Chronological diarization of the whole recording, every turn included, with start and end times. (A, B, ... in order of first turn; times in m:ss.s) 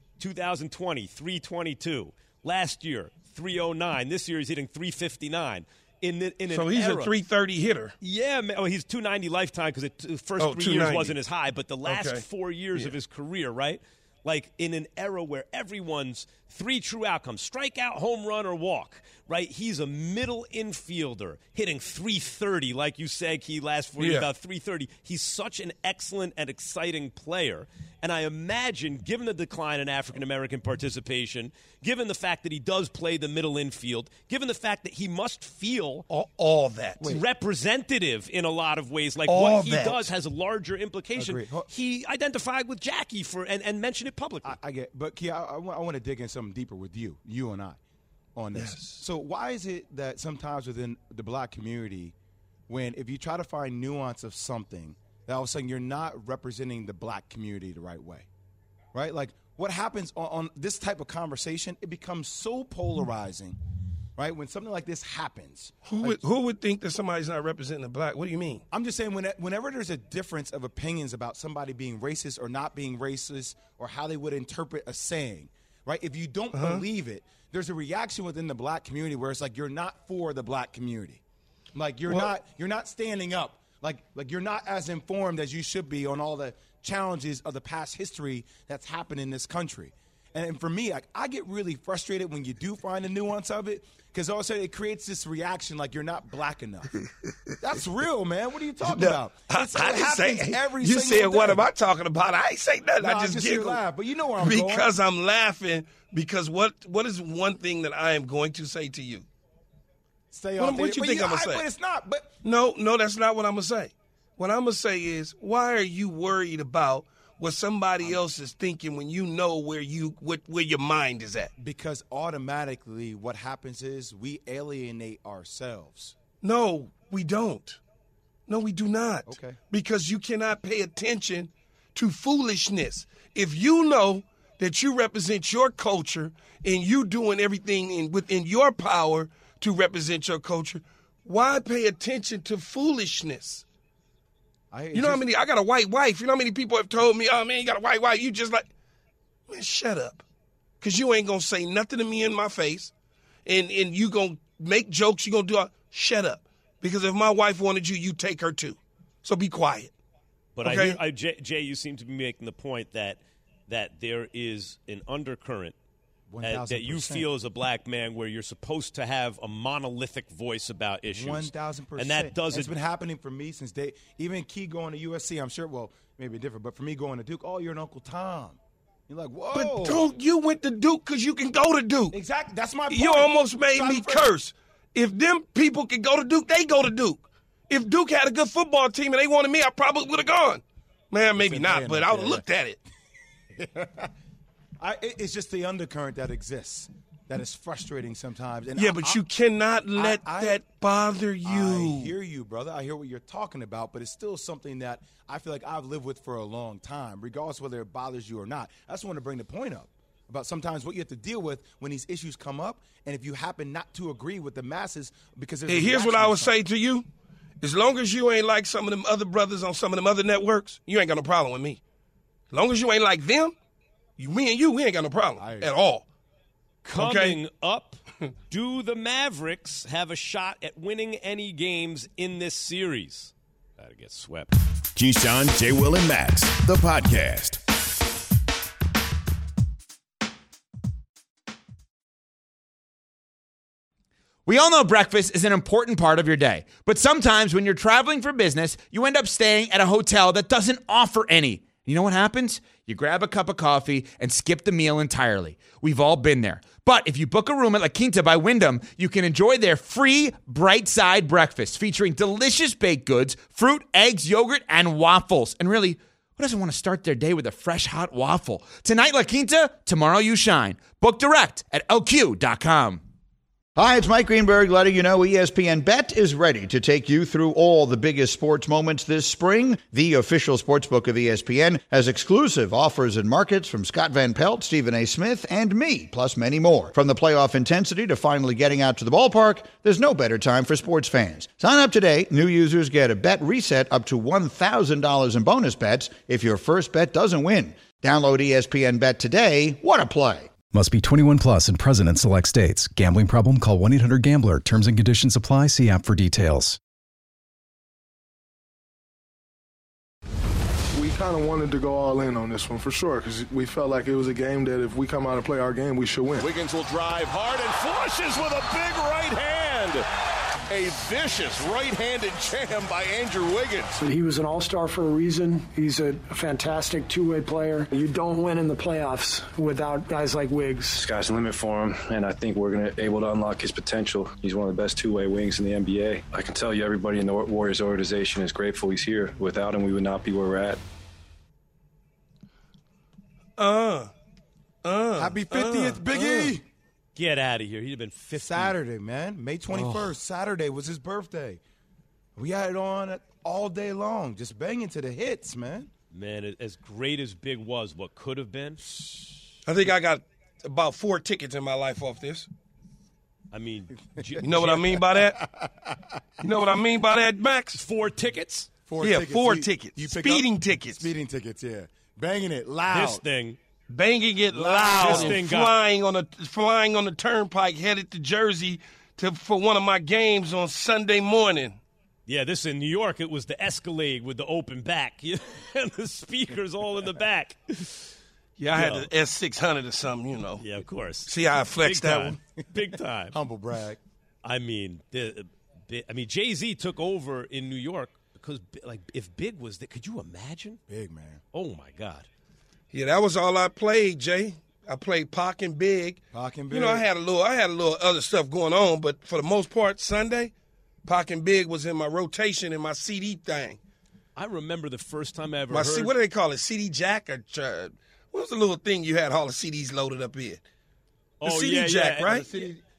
0:00.2-0:07.1 A
0:06.5-0:07.9 B
0:08.0-0:36.0 A
0:10.4-0:11.2 B
0:11.8-0:12.2 B
0:24.0-0:24.3 B
0:36.1-0:37.0 B
0:37.0-0:44.6 A
0:39.3-0:40.1 B
0:41.1-0:41.7 C
0:44.4-0:47.8 C
0:48.3-0:52.1 C
0:48.5-0:49.0 B
0:52.7-0:58.3 C
0:58.9-1:03.6 C
1:04.2-1:06.2 C
1:05.8-1:08.6 B
1:08.7-1:21.2 C
1:16.5-1:16.8 B
1:21.7-1:37.0 C
1:37.6-1:41.6 C
1:38.8-1:43.8 B
1:43.0-1:44.9 C
1:44.4-1:49.2 B
1:50.3-1:52.3 C
1:50.6-1:51.6 B
1:52.4-2:01.5 B
2:01.6-2:06.1 C
2:06.4-2:07.8 B
2:08.5-2:23.6 B
2:09.2-2:09.6 C
2:24.7-2:25.2 C
2:24.9-2:28.7 B
2:29.5-2:30.2 B
2:30.8-2:32.9 B
2:33.4-2:39.9 B
2:40.6-2:45.8 A
2:40.6-2:41.0 B
2:46.3-2:47.3 C
2:46.4-2:52.7 A
2:51.1-3:00.1 C
2:59.5-3:02.1 B
3:02.1-3:04.3 C
3:02.9-3:12.8 B
3:11.4-3:12.4 C
3:13.6-3:14.1 C
3:14.8-3:19.2 C
3:18.8-3:22.1 B
3:20.0-3:20.6 C
3:21.4-3:36.6 C
3:35.7-3:37.0 B
3:37.6-3:41.8 B
3:42.5-3:43.5 B
3:44.2-3:46.0 B
3:45.4-3:45.7 C
3:46.8-3:54.5 A
3:47.0-3:47.4 B
3:54.9-3:57.6 D
4:04.4-4:33.0 E
4:33.8-5:00.5 F
5:00.7-5:06.8 G
5:10.9-5:16.5 H
5:17.2-5:17.6 I
5:18.3-5:19.9 I
5:20.7-5:23.8 I
5:23.9-5:31.0 J
5:30.9-5:40.8 K
5:43.6-5:44.1 B
5:44.8-5:46.5 B
5:45.2-5:46.6 C
5:47.1-5:48.7 A
5:48.3-5:51.6 C
5:49.7-5:50.1 A
5:52.4-5:55.9 C
5:56.1-5:58.8 A
5:59.6-6:02.5 B
6:03.5-6:05.0 A
6:04.2-6:04.4 C
6:04.4-6:05.4 B
6:05.4-6:06.4 C
6:06.4-6:07.8 B
6:07.7-6:08.7 A
6:08.9-6:13.2 C
6:09.0-6:11.1 B
6:12.9-6:13.6 A
6:13.9-6:21.8 B
6:14.5-6:15.4 C
6:14.9-6:15.7 A
6:22.3-6:28.1 A
6:28.6-6:30.6 B
6:28.7-6:29.1 A
6:30.6-6:33.4 A
6:31.3-6:32.4 B
6:33.3-6:34.0 C
6:34.4-6:40.8 A
6:40.9-6:41.4 C
6:41.5-6:42.3 A
6:42.9-6:50.5 B
6:46.3-6:47.1 C
6:51.0-6:53.8 B
6:54.4-6:56.1 A
6:55.7-7:00.6 B
7:01.4-7:02.4 A
7:01.4-7:02.5 B
7:02.2-7:02.8 C